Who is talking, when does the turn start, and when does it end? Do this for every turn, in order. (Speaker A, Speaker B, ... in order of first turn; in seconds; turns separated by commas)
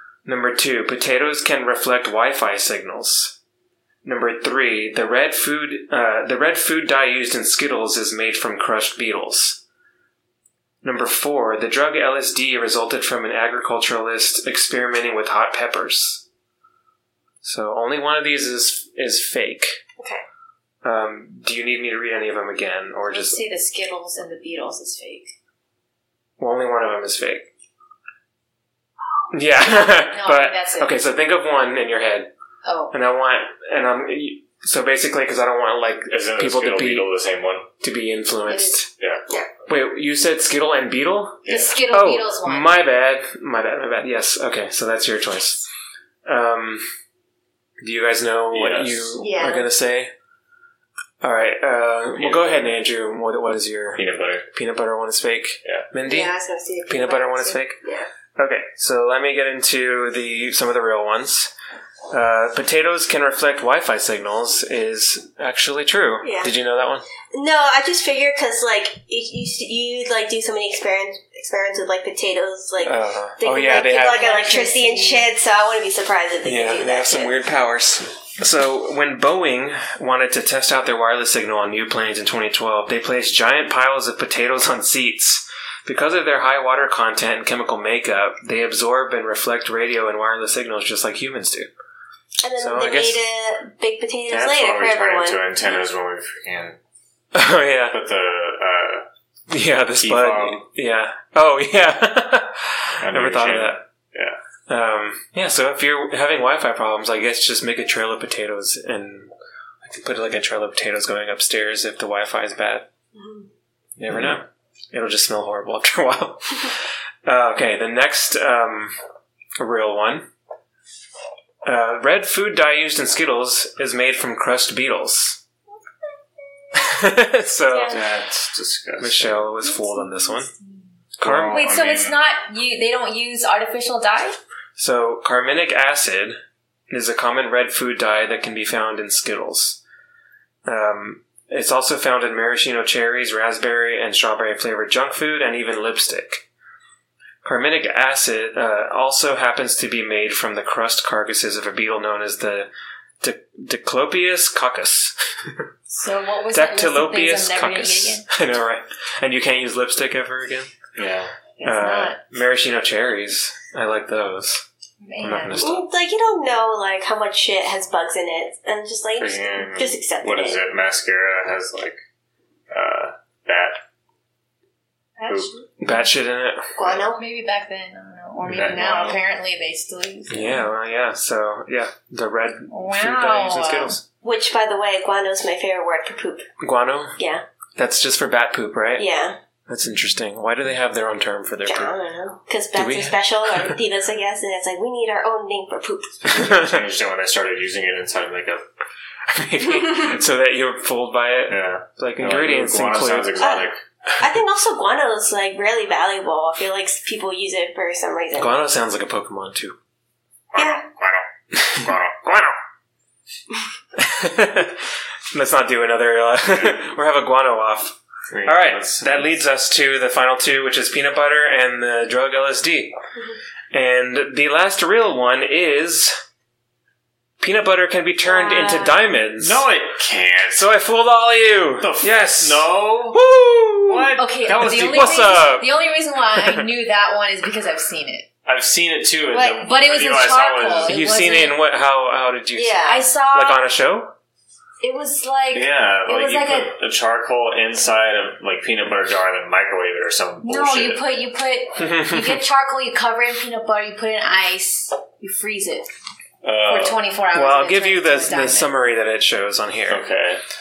Speaker A: 0.2-3.4, Speaker A: 4.0-9.6, Speaker A: 10.8-16.2, Speaker A: 17.4-19.8, Speaker A: 20.8-23.4, Speaker B: 23.1-25.3, Speaker A: 26.4-27.5, Speaker A: 29.3-32.3, Speaker B: 29.6-31.0, Speaker B: 32.6-32.9, Speaker A: 32.9-37.1, Speaker C: 36.1-37.7, Speaker A: 37.8-38.9, Speaker B: 38.5-38.8, Speaker A: 39.7-45.6, Speaker C: 41.5-41.8, Speaker B: 41.5-42.7, Speaker A: 46.2-46.8, Speaker A: 47.8-50.1, Speaker C: 48.5-49.2, Speaker D: 49.2-49.7, Speaker A: 51.2-56.3, Speaker C: 52.2-52.7, Speaker C: 54.0-54.5, Speaker D: 56.0-58.1, Speaker A: 56.9-57.8, Speaker A: 58.4-61.5, Speaker A: 62.1-67.1, Speaker D: 66.2-66.5, Speaker D: 67.3-77.3, Speaker A: 72.8-74.3, Speaker B: 73.8-75.3, Speaker A: 76.4-91.7, Speaker D: 92.4-95.5, Speaker A: 92.6-93.2, Speaker C: 94.3-96.8, Speaker A: 97.3-98.0, Speaker C: 97.9-99.0, Speaker A: 99.5-103.8, Speaker C: 100.0-100.7, Speaker C: 103.0-104.3, Speaker A: 104.7-109.3, Speaker A: 109.8-112.9, Speaker D: 113.1-113.5, Speaker A: 114.0-118.9, Speaker A: 119.6-120.3, Speaker A: 121.6-125.4, Speaker A: 126.8-128.0, Speaker C: 127.9-129.5, Speaker A: 129.0-130.5, Speaker A: 131.2-131.6, Speaker C: 131.2-132.2, Speaker B: 131.5-134.4, Speaker A: 134.8-136.4, Speaker A: 136.9-139.8, Speaker A: 140.7-146.4, Speaker A: 147.4-152.7, Speaker A: 153.2-155.6, Speaker B: 155.9-158.2, Speaker A: 156.5-160.7, Speaker C: 160.9-161.3, Speaker B: 161.6-162.2, Speaker A: 161.6-164.6, Speaker B: 165.0-165.6, Speaker A: 165.2-165.8, Speaker D: 165.6-170.6, Speaker C: 169.2-172.0, Speaker C: 172.7-173.8, Speaker B: 175.2-176.1, Speaker C: 175.2-175.5, Speaker A: 175.8-176.9, Speaker D: 176.8-177.2, Speaker B: 177.1-180.7, Speaker C: 178.5-179.2, Speaker A: 180.3-184.0, Speaker B: 182.7-183.9, Speaker D: 184.2-186.4, Speaker A: 186.6-187.2, Speaker D: 187.2-187.4, Speaker A: 187.8-189.1, Speaker D: 189.0-189.4, Speaker A: 189.7-191.9, Speaker D: 191.6-196.5, Speaker A: 192.7-193.8, Speaker C: 196.3-198.6, Speaker A: 196.3-196.8, Speaker A: 199.3-203.4, Speaker C: 201.5-203.8, Speaker D: 203.4-203.7, Speaker D: 204.2-208.6, Speaker A: 208.3-209.8, Speaker C: 210.5-212.5, Speaker D: 210.6-210.8, Speaker A: 211.6-212.4, Speaker A: 213.9-222.9, Speaker C: 218.3-219.3, Speaker A: 223.7-226.2, Speaker A: 227.4-229.7, Speaker B: 228.3-228.8, Speaker C: 229.4-230.7, Speaker A: 230.5-235.7, Speaker C: 231.8-233.2, Speaker C: 233.8-235.4, Speaker B: 234.2-238.3, Speaker A: 236.3-236.7, Speaker C: 238.4-241.0, Speaker B: 239.3-241.6, Speaker A: 240.8-244.1, Speaker D: 242.5-243.1, Speaker B: 242.8-243.6, Speaker B: 244.8-246.7, Speaker C: 245.5-251.0, Speaker B: 250.4-255.9, Speaker A: 251.8-252.4, Speaker C: 256.4-257.0, Speaker B: 256.6-258.7, Speaker A: 257.3-260.1, Speaker C: 259.9-260.4